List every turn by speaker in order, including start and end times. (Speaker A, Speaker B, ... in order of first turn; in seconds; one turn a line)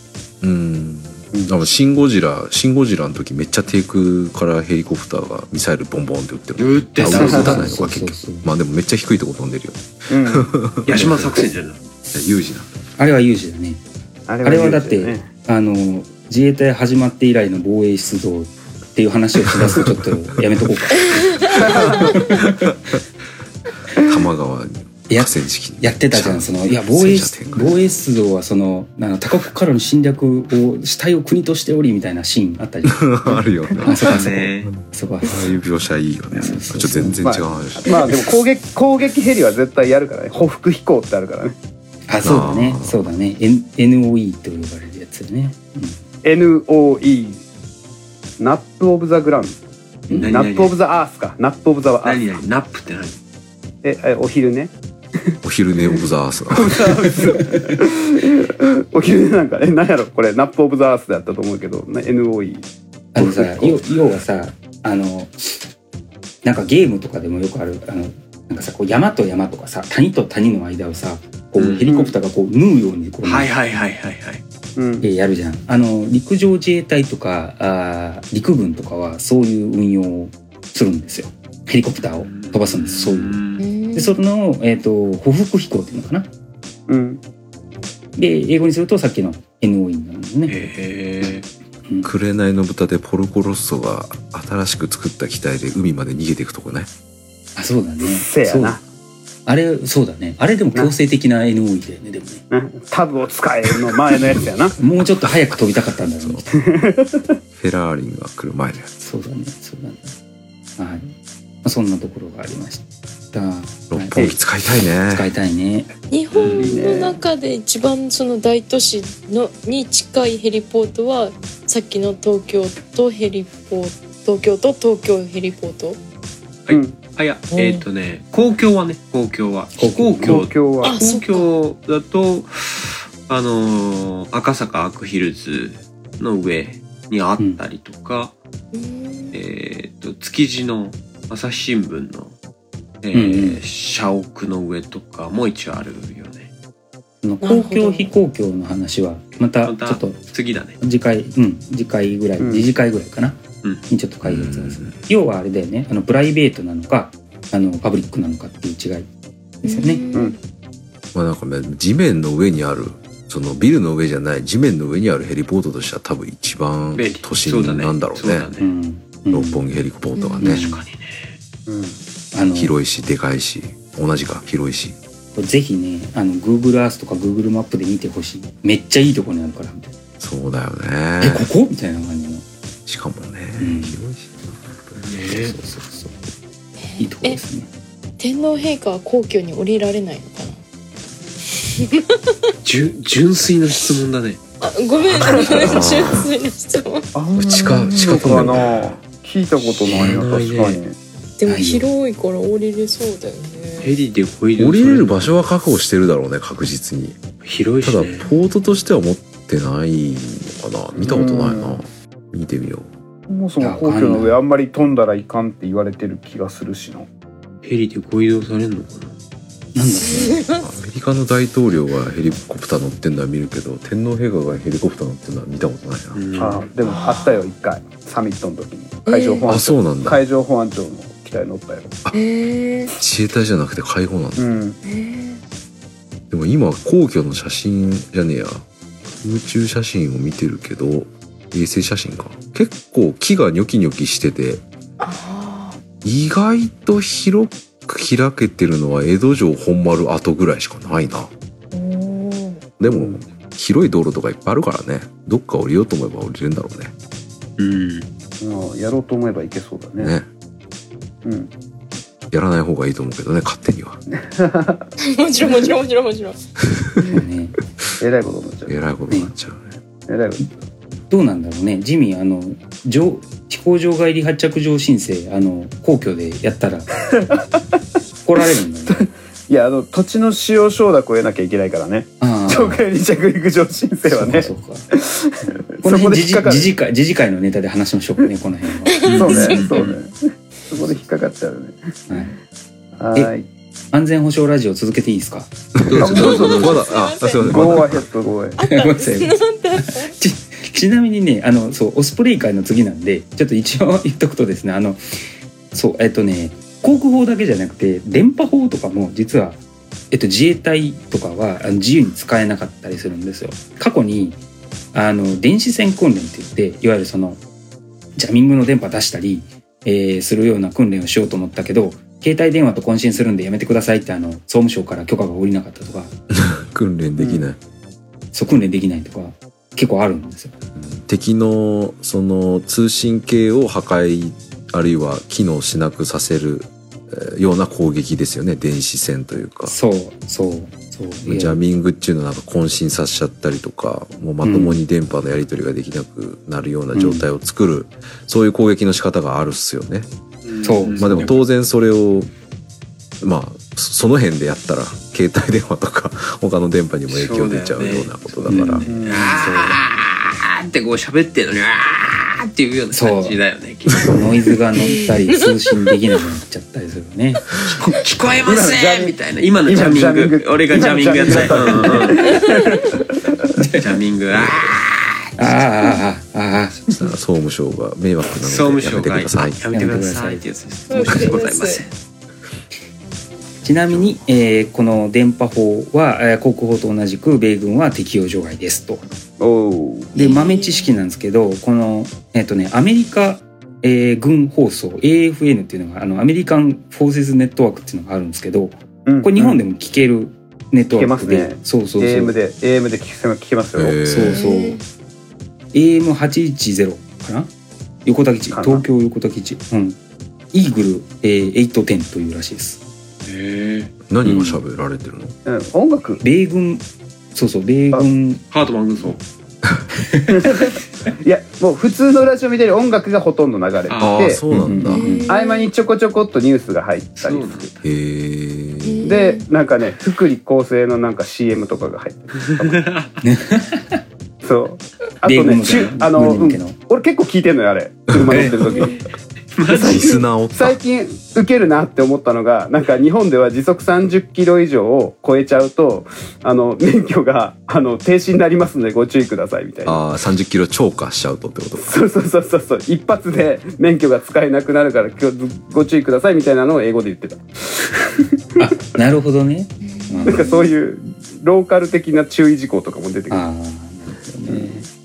Speaker A: 0.4-11.5
Speaker B: 1.3-1.7
Speaker C: 6.6-7.7
Speaker D: 7.0-8.5
Speaker B: 7.1-7.6
Speaker B: 10.1-10.6
Speaker C: 10.8-11.8
Speaker A: 12.1-12.7
Speaker D: 13.0-13.8
Speaker B: 14.3-15.3
Speaker D: 14.4-22.7
Speaker A: 19.6-20.0
Speaker E: 21.1-22.0
Speaker B: 21.6-22.1
Speaker A: 24.0-27.8
Speaker D: 25.1-35.6
Speaker A: 32.9-38.1
Speaker C: 34.0-34.7
Speaker D: 36.4-37.2
Speaker B: 37.2-41.5
Speaker D: 42.1-46.0
Speaker A: 42.2-43.1
Speaker B: 46.2-47.4
Speaker B: 48.4-49.6
Speaker D: 50.1-50.4
Speaker B: 50.2-52.2
Speaker C: 50.2-50.8
Speaker C: 52.0-53.2
Speaker B: 53.8-54.7
Speaker A: 55.4-57.0
Speaker B: 55.9-63.8
Speaker D: 63.1-65.6
Speaker D: 66.4-73.5
Speaker C: 71.6-71.9
Speaker B: 71.8-72.1
Speaker C: 73.2-74.4
Speaker B: 74.8-75.0
Speaker D: 75.0-83.4
Speaker C: 82.0-83.6
Speaker E: 83.6-84.2
Speaker D: 83.9-86.3
Speaker B: 86.9-87.2
Speaker D: 88.2-90.6
Speaker C: 90.5-91.5
Speaker A: 92.0-96.9
Speaker D: 97.5-98.8
Speaker B: 98.1-98.8
Speaker D: 99.5-102.4
Speaker B: 102.5-104.8
Speaker D: 104.8-106.5
Speaker B: 106.6-107.4
Speaker A: 107.6-108.9
Speaker D: 109.0-110.1
Speaker D: 110.8-111.1
Speaker D: 111.6-114.4
Speaker A: 113.9-115.3
Speaker D: 115.0-115.9
Speaker E: 116.1-126.0
Speaker C: 116.3-116.7
Speaker B: 116.5-117.2
Speaker C: 126.7-138.3
Speaker B: 126.7-127.0
Speaker E: 127.5-127.8
Speaker D: 129.8-130.4
Speaker B: 130.2-130.9
Speaker E: 130.8-131.5
Speaker E: 138.7-139.4
Speaker C: 139.3-142.3
Speaker C: 143.0-146.5
Speaker D: 143.1-143.6
Speaker D: 147.2-150.2
Speaker E: 147.4-148.1
Speaker C: 149.6-150.8
Speaker D: 150.8-159.1
Speaker B: 152.4-152.7
Speaker A: 154.2-155.0
Speaker D: 159.6-160.1
Speaker E: 159.6-160.4
Speaker A: 161.1-168.5
Speaker C: 166.9-168.7
Speaker D: 168.6-169.6
Speaker A: 169.3-170.6
Speaker E: 170.2-170.5
Speaker D: 170.4-170.8
Speaker C: 170.5-171.3
Speaker B: 171.7-172.0
Speaker D: 172.3-172.7
Speaker A: 172.5-174.9
Speaker D: 175.3-179.9
Speaker A: 180.2-181.5
Speaker D: 181.2-182.4
Speaker A: 182.8-185.2
Speaker D: 183.6-184.0
Speaker C: 185.0-185.6
Speaker D: 185.3-186.2
Speaker E: 186.9-187.4
Speaker D: 187.0-187.7
Speaker E: 188.2-190.6
Speaker E: 191.8-192.1
Speaker C: 192.6-194.4
Speaker E: 194.6-197.1
Speaker C: 195.1-195.7
Speaker A: 195.6-196.3
Speaker B: 197.1-201.0
Speaker A: 197.4-199.0
Speaker C: 198.0-198.4
Speaker C: 199.8-200.8
Speaker E: 201.4-203.9
Speaker D: 201.4-201.9
Speaker C: 203.8-205.4
Speaker A: 204.6-207.2
Speaker C: 207.4-208.3
Speaker A: 207.8-212.9
Speaker B: 210.9-211.8
Speaker B: 213.3-217.1
Speaker D: 213.6-214.4
Speaker C: 217.6-219.1
Speaker D: 219.7-220.4
Speaker E: 220.0-220.6
Speaker A: 220.6-226.2
Speaker C: 226.1-226.7
Speaker B: 226.3-232.0
Speaker E: 226.8-227.4
Speaker E: 229.1-229.5
Speaker A: 229.4-230.2
Speaker E: 232.1-232.9
Speaker A: 233.0-234.4
Speaker B: 234.4-234.8
Speaker E: 234.8-235.4
Speaker A: 236.3-238.6
Speaker A: 239.2-244.6
Speaker E: 245.0-245.8
Speaker A: 246.0-251.3
Speaker E: 251.7-252.7
Speaker A: 252.8-256.9
Speaker B: 252.8-253.2
Speaker C: 257.6-258.1
Speaker B: 258.4-260.1
Speaker A: 260.0-260.3
Speaker B: 261.2-261.5
Speaker A: 262.3-264.0
Speaker B: 264.1-264.9
Speaker E: 265.0-266.4
Speaker A: 266.7-267.0
Speaker D: 267.0-267.6
Speaker B: 268.0-268.8
Speaker A: 268.7-269.8
Speaker B: 270.1-270.4
Speaker D: 271.1-276.9
Speaker B: 277.1-277.4
Speaker D: 278.2-279.1
Speaker B: 278.9-286.7
Speaker D: 282.2-282.8
Speaker D: 284.1-284.9
Speaker D: 285.8-289.1
Speaker E: 288.9-289.9
Speaker C: 289.1-289.9
Speaker B: 289.1-291.9
Speaker D: 292.1-292.4
Speaker B: 293.0-293.4
Speaker D: 293.9-296.3
Speaker A: 295.8-298.1
Speaker B: 295.9-296.8
Speaker E: 296.0-297.5
Speaker B: 297.4-298.6
Speaker E: 298.6-300.1
Speaker D: 298.6-305.0
Speaker D: 305.7-309.6
Speaker D: 310.1-314.4
Speaker D: 314.9-317.4
Speaker D: 318.1-326.1
Speaker A: 326.3-327.6
Speaker B: 327.2-327.4
Speaker D: 328.3-330.5
Speaker A: 330.8-339.7
Speaker D: 339.7-341.6
Speaker A: 341.2-350.1
Speaker D: 344.4-344.8
Speaker D: 346.9-347.3
Speaker C: 350.4-351.3
Speaker D: 350.6-351.3
Speaker A: 350.9-352.3
Speaker A: 353.2-358.9
Speaker C: 357.1-364.5
Speaker D: 358.5-359.8
Speaker B: 358.9-359.4
Speaker D: 362.9-363.4
Speaker D: 364.0-367.5
Speaker E: 364.8-365.5
Speaker C: 367.6-372.4
Speaker B: 368.4-373.0
Speaker E: 372.2-372.7
Speaker D: 373.6-373.9
Speaker C: 373.8-375.6
Speaker A: 374.3-374.6
Speaker D: 375.4-376.9
Speaker A: 376.7-379.6
Speaker C: 378.4-381.9
Speaker D: 379.7-380.4
Speaker E: 380.9-381.8
Speaker D: 383.6-389.0
Speaker A: 383.9-384.2
Speaker B: 389.4-390.1
Speaker E: 390.1-390.9
Speaker D: 390.1-402.4
Speaker B: 399.1-399.6
Speaker B: 400.9-404.0
Speaker A: 403.8-404.4
Speaker D: 404.1-404.8
Speaker E: 404.3-404.8
Speaker D: 405.7-407.5
Speaker D: 408.0-410.0
Speaker B: 408.5-408.8
Speaker D: 410.5-412.8
Speaker C: 413.2-413.9
Speaker A: 414.1-415.4
Speaker D: 414.2-414.6
Speaker B: 415.4-416.2
Speaker D: 416.2-418.4
Speaker C: 418.5-419.2
Speaker D: 420.1-420.5
Speaker B: 420.3-424.4
Speaker C: 423.9-424.3
Speaker A: 424.0-425.1
Speaker D: 424.5-425.3
Speaker E: 424.9-425.7
Speaker B: 425.3-427.7
Speaker C: 427.2-427.8
Speaker A: 427.8-429.2
Speaker E: 428.8-429.4
Speaker B: 429.0-432.9
Speaker C: 432.6-433.1
Speaker D: 433.2-434.0
Speaker B: 434.4-439.0
Speaker D: 435.2-436.8
Speaker A: 438.1-438.8
Speaker D: 438.3-438.8
Speaker E: 438.8-439.0
Speaker C: 439.6-440.2
Speaker B: 439.7-450.0
Speaker A: 439.7-440.8
Speaker A: 449.8-452.0
Speaker B: 451.8-458.7
Speaker D: 458.6-460.5
Speaker E: 459.8-460.7
Speaker B: 460.3-463.4
Speaker D: 463.3-464.8
Speaker B: 464.5-464.9